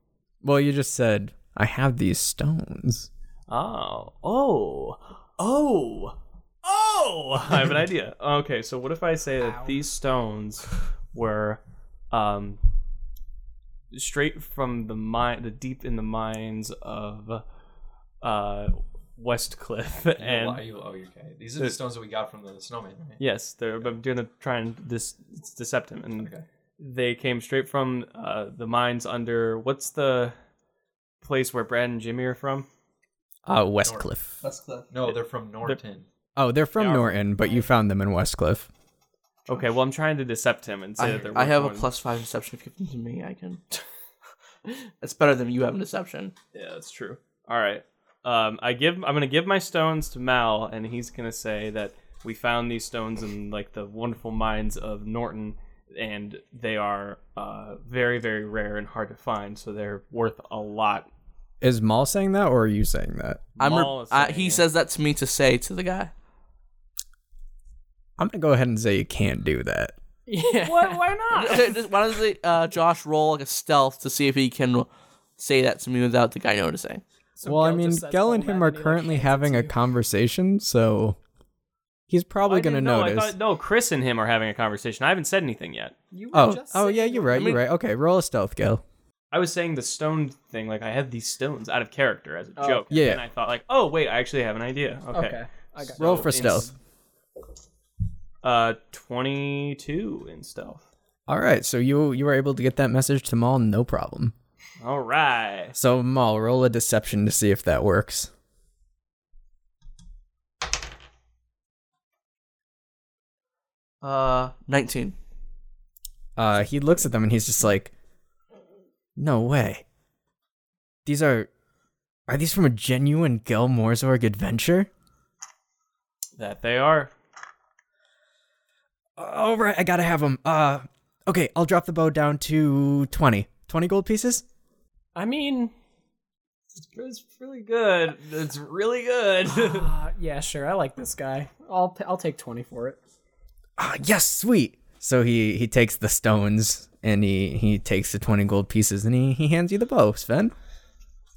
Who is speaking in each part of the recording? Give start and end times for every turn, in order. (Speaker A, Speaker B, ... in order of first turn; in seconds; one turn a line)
Speaker A: 0.4-3.1
Speaker B: 3.5-11.6
Speaker B: 12.1-12.6
Speaker B: 13.9-17.4
Speaker B: 18.2-20.6
Speaker C: 20.2-23.2
Speaker B: 23.2-30.4
Speaker C: 26.2-26.4
Speaker B: 31.2-32.7
Speaker A: 33.5-34.3
Speaker C: 33.8-34.1
Speaker D: 34.4-34.9
Speaker C: 34.9-36.1
Speaker B: 35.1-35.8
Speaker A: 36.4-38.7
Speaker B: 36.8-37.3
Speaker B: 39.5-41.9
Speaker D: 41.0-43.8
Speaker D: 45.0-46.3
Speaker B: 46.5-61.1
Speaker A: 61.6-63.4
Speaker B: 63.6-64.6
Speaker D: 63.6-66.1
Speaker A: 68.2-69.9
Speaker E: 70.3-71.7
Speaker B: 70.6-71.2
Speaker D: 71.3-77.0
Speaker E: 77.4-79.8
Speaker A: 77.4-81.2
Speaker A: 82.1-83.3
Speaker B: 82.5-86.0
Speaker E: 86.1-87.6
Speaker A: 86.3-88.8
Speaker D: 87.3-87.6
Speaker B: 89.3-96.7
Speaker E: 92.6-93.0
Speaker A: 92.9-93.2
Speaker E: 95.1-96.7
Speaker A: 96.0-96.7
Speaker B: 98.4-100.8
Speaker A: 101.3-104.3
Speaker B: 104.8-105.8
Speaker A: 105.8-108.3
Speaker D: 114.0-115.2
Speaker A: 116.4-117.9
Speaker A: 119.2-119.8
Speaker A: 121.0-121.5
Speaker A: 122.3-124.9
Speaker B: 126.4-127.1
Speaker A: 129.2-134.4
Speaker E: 135.2-135.7
Speaker B: 136.8-139.9
Speaker E: 139.5-143.0
Speaker A: 143.8-150.6